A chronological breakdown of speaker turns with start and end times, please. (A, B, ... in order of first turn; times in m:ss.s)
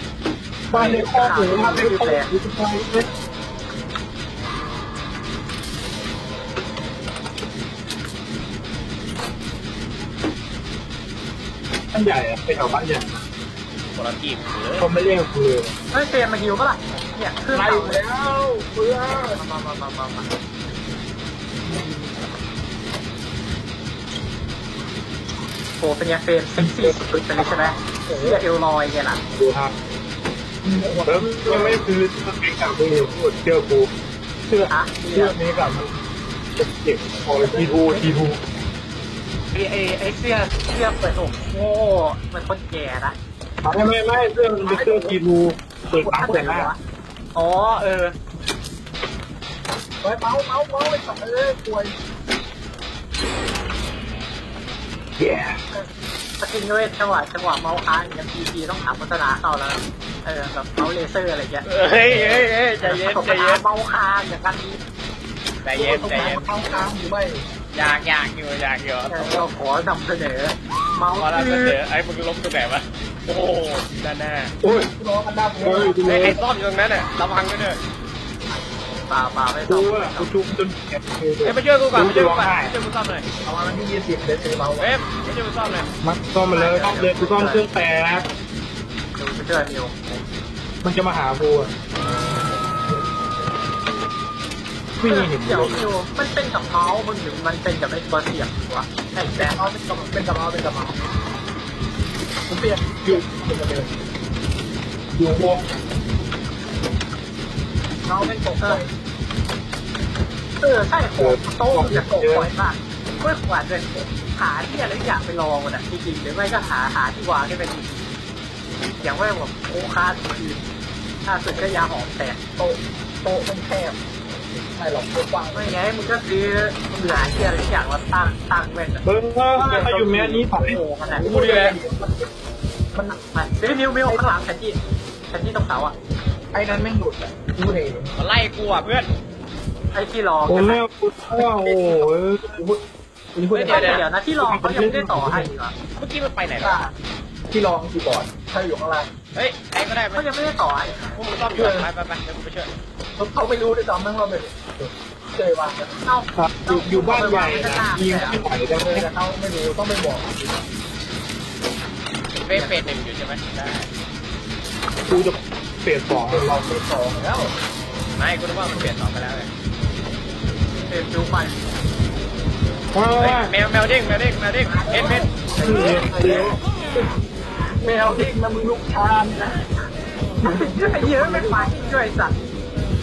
0:00.7-0:03.1 A
0:00.7-0:02.3 B
0:11.9-0:13.2 A
0:13.9-0:14.9 C
0:14.8-0:15.7 A
0:15.9-0:18.0 B
0:17.5-0:19.4 D
0:19.4-0:20.2 B
0:21.7-0:22.0 D
0:25.8-0:29.2 B
0:26.6-0:27.0 A
0:28.1-0:28.4 D
0:29.3-0:29.7 A
0:30.6-0:31.8 D
0:31.1-0:33.9 A
0:34.5-0:36.0 A
0:34.7-0:35.4 B
0:36.6-0:38.4 A
0:37.4-0:38.0 D
0:39.5-0:43.2 B
0:43.6-0:46.7 A
0:44.6-0:45.2 D
0:46.0-0:46.6 D
0:46.1-0:46.8 B
0:47.3-0:48.2 B
0:50.0-0:52.0 D
0:55.2-0:55.6 A
0:56.4-1:04.8 B
1:01.6-1:03.6 C
1:05.6-1:06.5 C
1:05.7-1:07.5 D
1:07.7-1:09.5 C
1:09.1-1:11.8 B
1:11.2-1:14.5 C
1:14.6-1:14.9 A
1:14.6-1:16.3 D
1:15.6-1:16.4 A
1:16.0-1:17.8 C
1:19.1-1:20.3 B
1:19.7-1:22.7 A
1:21.4-1:23.3 C
1:23.4-1:24.9 D
1:24.8-1:25.9 C
1:26.0-1:28.3 A
1:26.5-1:27.7 B
1:29.2-1:29.9 B
1:30.8-1:31.7 A
1:35.0-1:35.8 A
1:35.0-1:39.6 B
1:39.3-1:41.0 D
1:42.5-1:43.9 D
1:45.1-1:45.6 A
1:48.0-1:48.9 D
1:50.6-1:58.0 B
1:51.2-1:52.5 A
1:59.0-2:00.6 B
2:01.2-2:02.4 B
2:02.6-2:04.0 D
2:04.6-2:05.8 D
2:05.5-2:11.3 B
2:09.0-2:12.0 A
2:11.2-2:11.8 C
2:11.2-2:11.8 D
2:12.9-2:13.2 D
2:13.3-2:14.8 B
2:15.3-2:15.9 B
2:16.5-2:18.1 D
2:18.2-2:19.1 C
2:19.9-2:20.8 B
2:20.5-2:22.5 A
2:22.5-2:22.8 D
2:23.3-2:24.0 D
2:23.5-2:25.7 B
2:23.6-2:24.0 C
2:24.4-2:25.5 A
2:26.0-2:26.8 C
2:26.6-2:26.9 D
2:27.5-2:29.1 D
2:29.3-2:30.2 C
2:30.1-2:31.2 B
2:31.1-2:32.7 C
2:31.5-2:31.9 D
2:33.2-2:36.0 D
2:36.0-2:38.4 B
2:36.4-2:39.1 A
2:38.8-2:40.6 D
2:42.4-2:43.9 C
2:42.5-2:42.8 B
2:45.1-2:46.5 A
2:46.2-2:47.5 D
2:48.2-2:49.5 C
2:50.9-2:51.6 B
2:52.9-2:53.5 A
2:53.2-2:55.3 C
2:54.7-2:57.1 D
2:55.6-2:56.5 A
2:57.8-2:59.6 D
3:00.4-3:01.7 D
3:00.4-3:02.3 B